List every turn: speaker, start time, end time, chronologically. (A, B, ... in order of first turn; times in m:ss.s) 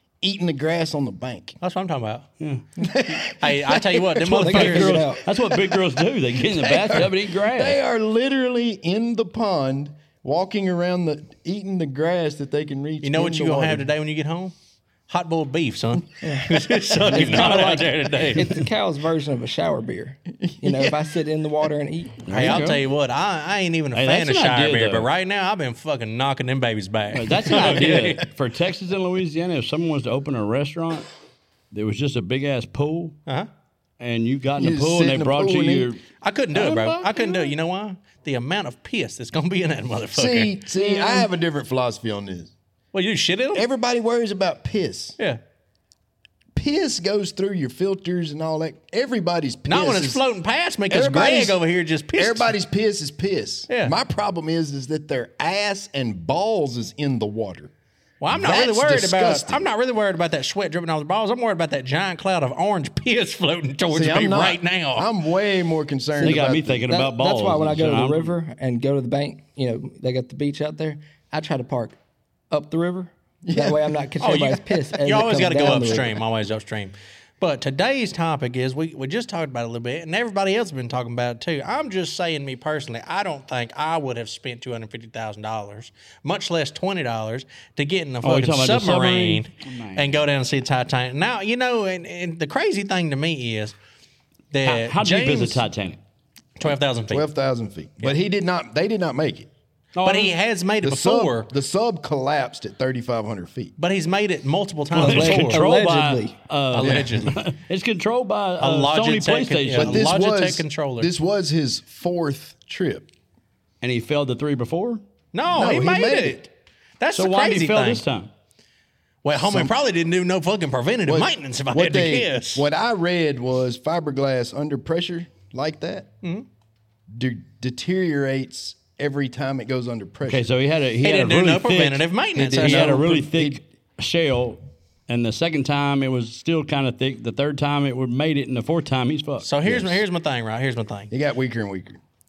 0:00.2-0:01.6 A
0:01.6-0:02.3 B
0:02.8-0:04.5 A
0:03.2-0:05.1 B
0:04.2-0:05.2 C
0:04.4-0:07.8 D
0:05.3-0:13.9 A
0:13.0-0:14.5 B
0:15.1-0:18.6 B
0:17.0-0:22.6 C
0:20.4-0:21.0 A
0:22.2-0:22.8 D
0:22.3-0:28.3 B
0:23.9-0:25.1 D
0:27.1-0:31.1 D
0:31.7-0:33.2 D
0:34.0-0:37.5 D
0:34.6-0:35.9 A
0:36.2-0:41.0 B
0:40.2-0:42.5 A
0:42.9-0:43.6 B
0:43.5-0:45.2 A
0:46.5-0:50.2 A
0:49.7-0:52.5 B
0:50.9-0:51.6 A
0:52.2-0:57.7 A
0:53.7-0:53.9 B
0:58.2-1:05.1 B
0:58.3-0:59.6 A
1:03.9-1:06.6 A
1:06.1-1:12.0 C
1:06.2-1:08.3 D
1:12.5-1:16.2 C
1:13.4-1:14.0 A
1:14.2-1:33.8 B
1:28.2-1:30.2 D
1:34.5-1:35.6 B
1:34.6-1:36.0 D
1:36.6-1:37.2 B
1:37.1-1:39.5 A
1:39.9-1:40.3 D
1:40.0-1:41.5 B
1:40.8-1:43.7 A
1:43.8-1:45.6 B
1:44.9-1:46.3 C
1:44.9-1:50.1 D
1:46.7-1:47.4 B
1:46.8-1:47.2 A
1:48.6-1:51.1 B
1:49.7-1:53.1 A
1:53.8-1:55.0 D
1:55.3-1:56.4 B
1:55.5-1:56.5 A
1:57.0-1:58.0 B
1:57.2-1:58.3 D
1:59.2-2:02.6 B
1:59.3-1:59.7 A
2:01.0-2:06.1 A
2:07.1-2:10.5 A
2:10.3-2:19.5 D
2:11.0-2:13.0 B
2:12.4-2:13.6 A
2:19.4-2:21.1 B
2:19.6-2:20.0 A
2:21.1-2:22.0 A